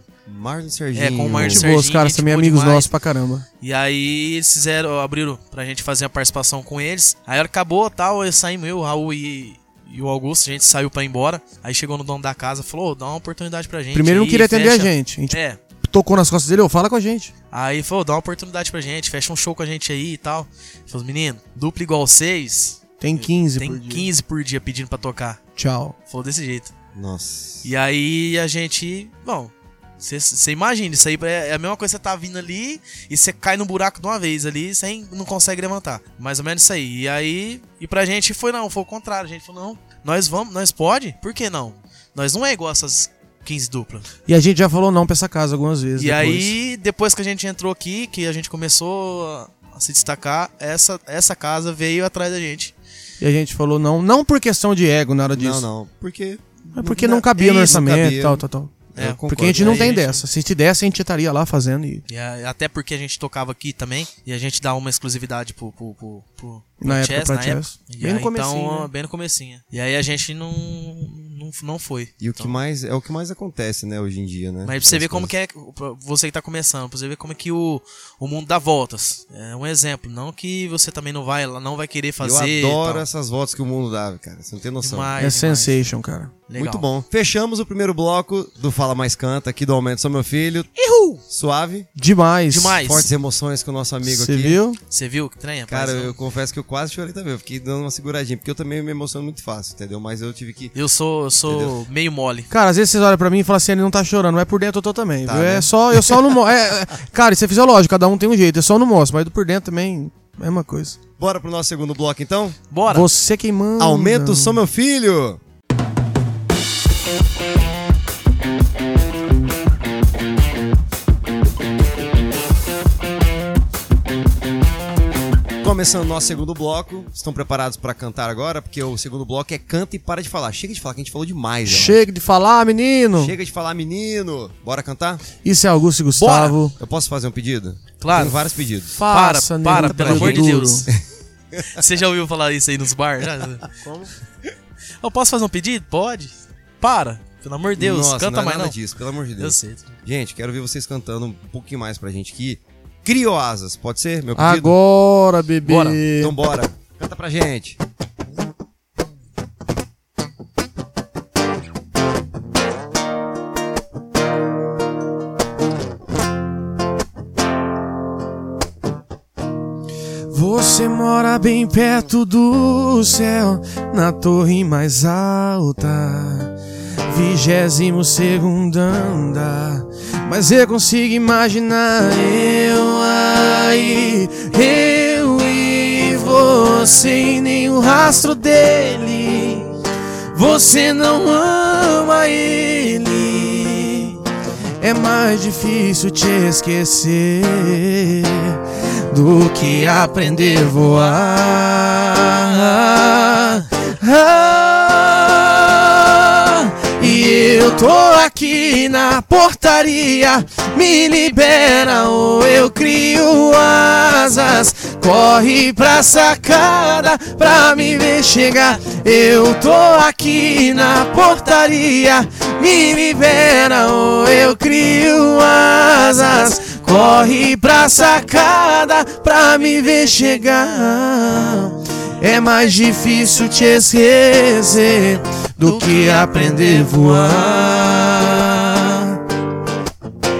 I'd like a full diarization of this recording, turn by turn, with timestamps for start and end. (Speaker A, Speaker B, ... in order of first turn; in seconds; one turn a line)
Speaker A: 0.3-1.7
Speaker B: 0.9-2.9
Speaker C: 1.5-3.4
Speaker B: 3.6-15.6
Speaker C: 13.9-17.3
Speaker B: 17.5-25.4
Speaker C: 23.0-24.1
Speaker C: 25.6-25.9
Speaker B: 26.1-26.7
Speaker A: 26.9-27.7
Speaker B: 27.6-44.1
Speaker C: 44.2-46.5
Speaker B: 46.0-52.7
Speaker C: 53.2-55.6
Speaker A: 55.3-60.0
Speaker C: 56.7-58.7
Speaker B: 57.4-57.7
Speaker B: 59.0-60.2
Speaker C: 59.3-62.0
Speaker B: 62.1-72.5
Speaker C: 66.8-68.9
Speaker A: 72.2-75.3
Speaker B: 74.6-83.0
Speaker A: 82.2-85.1
Speaker B: 84.8-85.8
Speaker C: 85.2-86.4
Speaker B: 86.5-86.9
Speaker A: 86.5-90.7
Speaker B: 90.8-91.2
Speaker A: 91.3-91.9
Speaker C: 92.0-92.9
Speaker B: 92.5-93.1
Speaker A: 92.8-94.6
Speaker C: 94.0-94.8
Speaker B: 94.9-96.1
Speaker A: 95.7-100.7
Speaker B: 100.7-102.5
Speaker A: 101.5-101.8
Speaker C: 102.5-111.0
Speaker A: 105.2-105.7
Speaker A: 111.2-112.6
Speaker B: 112.7-113.1
Speaker C: 112.9-114.6
Speaker A: 113.8-115.4
Speaker A: 125.6-132.0
Speaker C: 131.7-133.3
Speaker A: 133.2-135.2
Speaker C: 135.4-136.8
Speaker B: 136.2-136.6
Speaker A: 136.8-139.0
Speaker B: 138.0-138.5
Speaker C: 138.9-140.9
Speaker B: 139.1-140.9
Speaker A: 139.7-141.0
Speaker A: 141.5-141.8
Speaker B: 141.7-143.7
Speaker A: 143.7-144.1
Speaker B: 145.0-148.8
Speaker A: 147.8-154.8
Speaker B: 149.4-149.9
Speaker C: 154.3-156.3
Speaker B: 155.6-156.0
Speaker A: 156.1-157.8
Speaker C: 170.3-176.5
Speaker C: 177.1-189.7
Speaker C: 190.3-194.2
Speaker C: 194.8-239.2
Speaker B: 235.6-237.4